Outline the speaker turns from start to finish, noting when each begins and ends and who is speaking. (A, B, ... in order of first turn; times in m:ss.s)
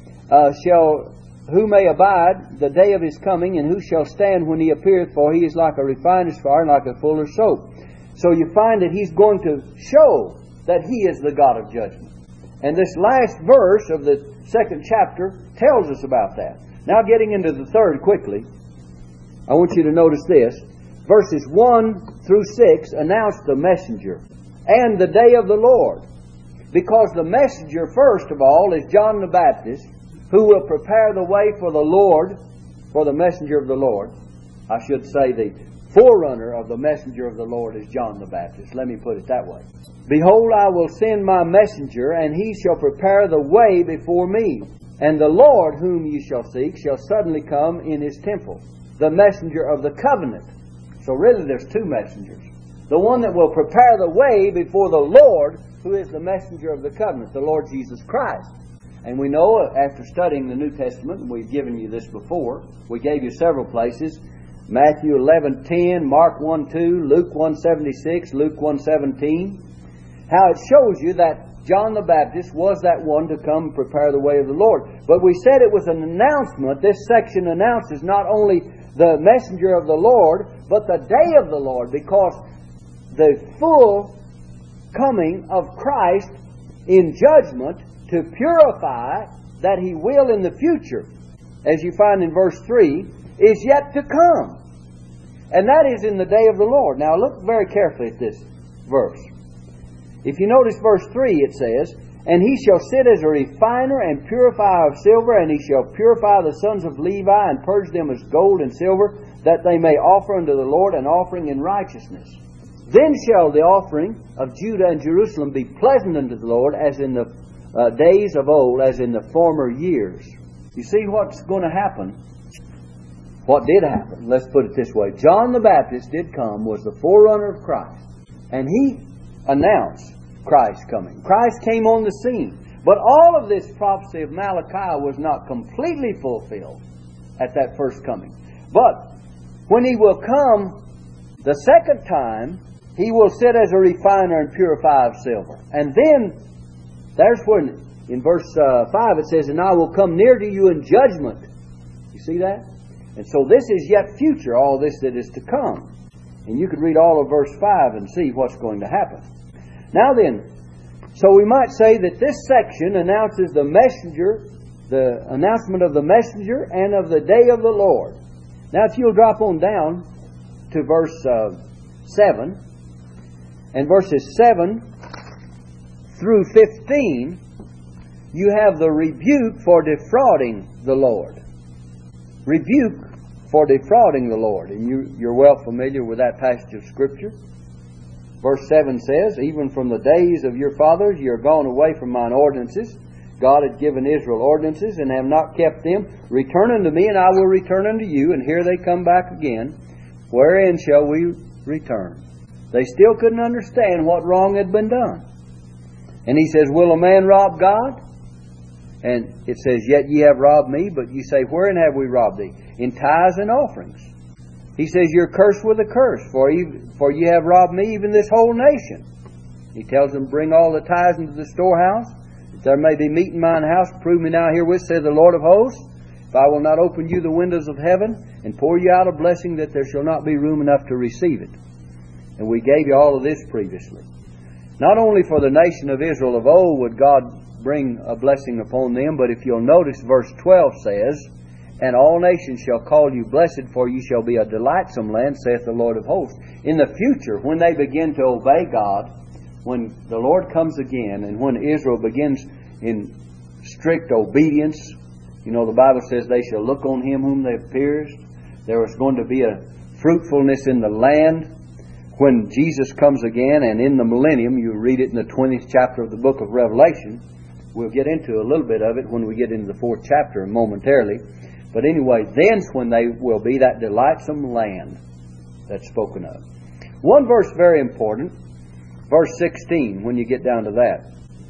0:00.3-0:12.1 A
0:12.6-0:18.4 A
0:19.5-0:26.0 A
0:26.7-0:32.4 A
0:32.9-0:34.1 A
0:34.7-0:50.5 A
0:51.0-0:58.5 A
0:59.0-1:09.6 A
1:10.3-1:22.4 A
1:23.1-1:24.1 A
1:24.9-1:26.3 A
1:26.9-1:31.1 A
1:31.6-1:34.6 A
1:35.5-1:39.3 A
1:40.2-1:52.4 A
1:52.9-2:02.2 A
2:03.5-2:08.0 A
2:08.5-2:16.8 A
2:17.4-2:19.1 A
2:19.7-2:20.8 A
2:21.4-2:26.4 A
2:27.2-2:31.5 A
2:32.1-2:32.6 A
2:33.2-2:35.9 A
2:36.5-2:39.2 A
2:39.9-2:40.4 A
2:41.1-2:48.2 A
2:48.7-2:50.0 A
2:50.7-2:52.6 A
2:53.7-2:54.8 A
2:56.1-2:57.4 A
2:58.3-3:01.4 A
3:02.5-3:07.3 A
3:08.4-3:19.8 A
3:20.3-3:22.2 A
3:22.7-3:25.2 A
3:26.3-3:28.0 A
3:29.0-3:34.1 A
3:34.8-3:39.0 A
3:39.7-3:51.5 A
3:52.4-3:54.0 A
3:54.8-4:01.3 A
4:01.8-4:09.1 A
4:09.6-4:13.1 A
4:13.6-4:21.5 A
4:22.2-4:27.2 A
4:27.7-4:31.2 A
4:31.7-4:35.0 A
4:35.7-4:36.4 A
4:37.0-4:38.3 A
4:39.1-4:41.0 A